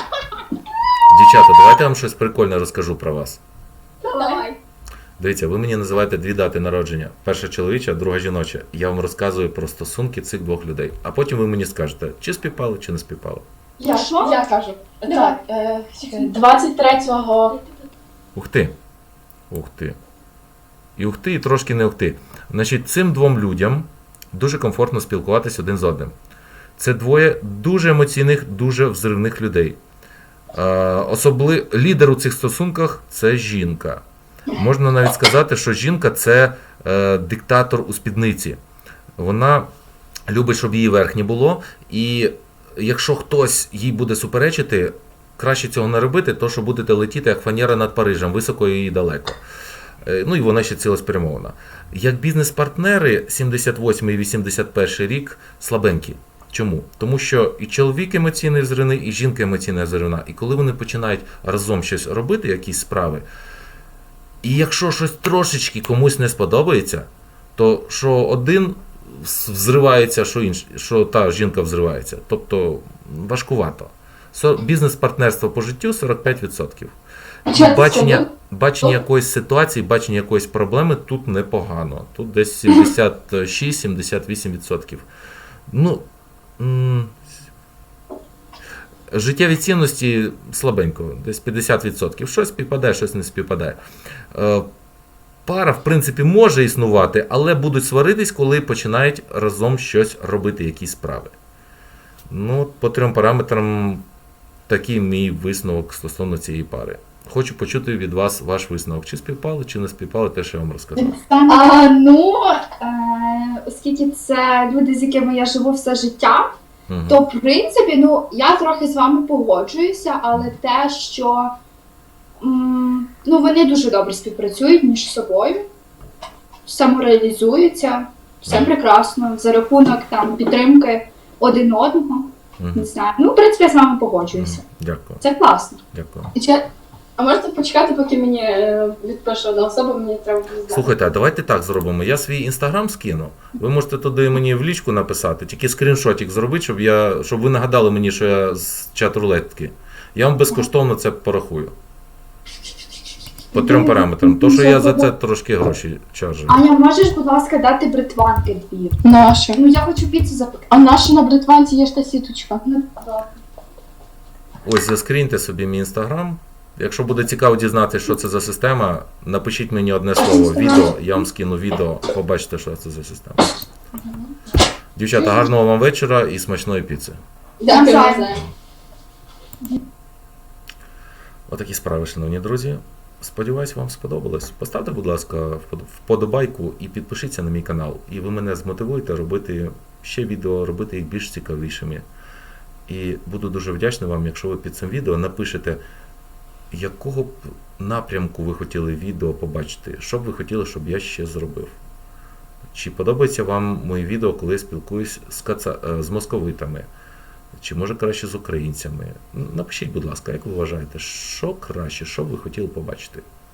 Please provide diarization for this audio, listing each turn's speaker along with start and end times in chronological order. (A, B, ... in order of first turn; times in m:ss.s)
0:01.1-0:03.4 A
0:04.0-0:04.4 B
0:04.1-0:04.6 C
0:05.2-0:13.4 A
0:13.8-0:14.4 C
0:13.8-0:17.6 B
0:15.1-0:15.4 C
0:16.1-0:16.3 C
0:18.3-0:18.7 A
0:19.5-0:20.0 A
0:21.0-0:26.1 A
0:26.8-0:29.8 A
0:30.5-0:38.6 A
0:39.2-0:39.7 A
0:40.3-0:49.4 A
0:50.0-1:03.2 A
1:04.4-1:17.0 A
1:17.5-1:18.3 B
1:17.5-1:25.1 A
1:25.7-1:26.0 A
1:26.6-1:27.2 A
1:29.1-1:33.8 A
1:34.3-1:34.7 A
1:35.4-1:41.3 A
1:42.3-1:44.0 A
1:44.7-1:51.2 A
1:51.0-1:51.8 B
1:51.4-1:56.5 C
1:56.9-1:57.2 A
1:57.1-2:01.5 C
2:02.4-2:05.7 C
2:06.7-2:14.6 C
2:08.5-2:08.7 B
2:12.6-2:12.9 A
2:14.3-2:15.2 A
2:15.2-2:15.8 C
2:15.9-2:16.3 A
2:16.3-2:20.9 B
2:20.7-2:31.7 A
2:33.5-2:35.1 C
2:33.5-2:36.6 A
2:36.5-2:39.0 C
2:39.0-2:39.6 B
2:39.5-2:40.7 C
2:40.7-2:42.6 B
2:42.6-2:43.3 C
2:44.6-2:53.5 A
2:55.0-2:57.2 A
2:57.6-2:58.4 B
2:57.7-2:58.3 C
3:01.5-3:12.0 A
3:12.9-3:15.8 A
3:16.7-3:21.8 A
3:22.7-3:26.9 A
3:27.5-3:33.2 A